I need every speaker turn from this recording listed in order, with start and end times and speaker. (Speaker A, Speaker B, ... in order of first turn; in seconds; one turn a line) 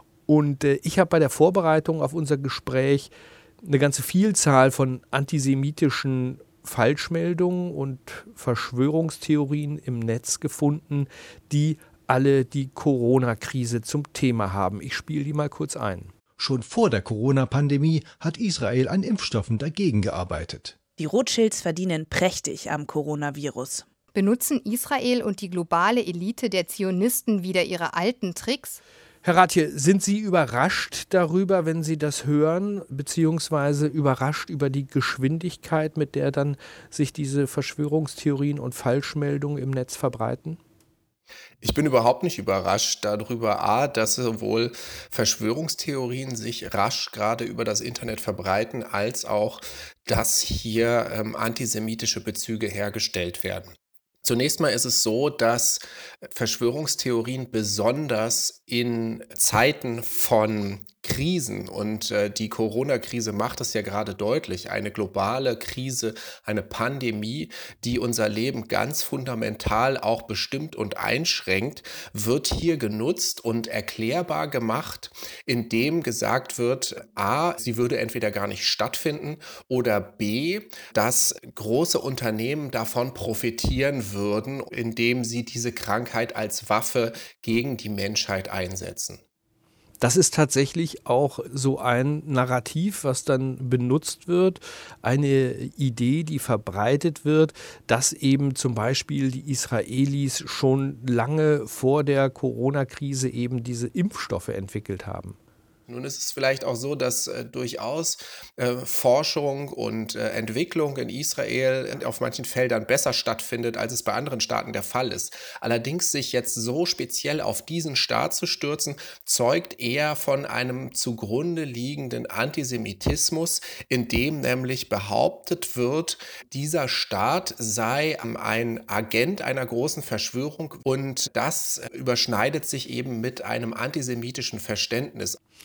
Speaker A: 0.3-16.1
Speaker B: 16.4-20.8
Speaker C: 21.0-23.9
Speaker D: 24.1-28.8
Speaker A: 29.2-40.6
Speaker E: 41.6-53.7
Speaker E: 54.2-89.2
Speaker A: 90.0-105.4
Speaker E: 105.9-135.4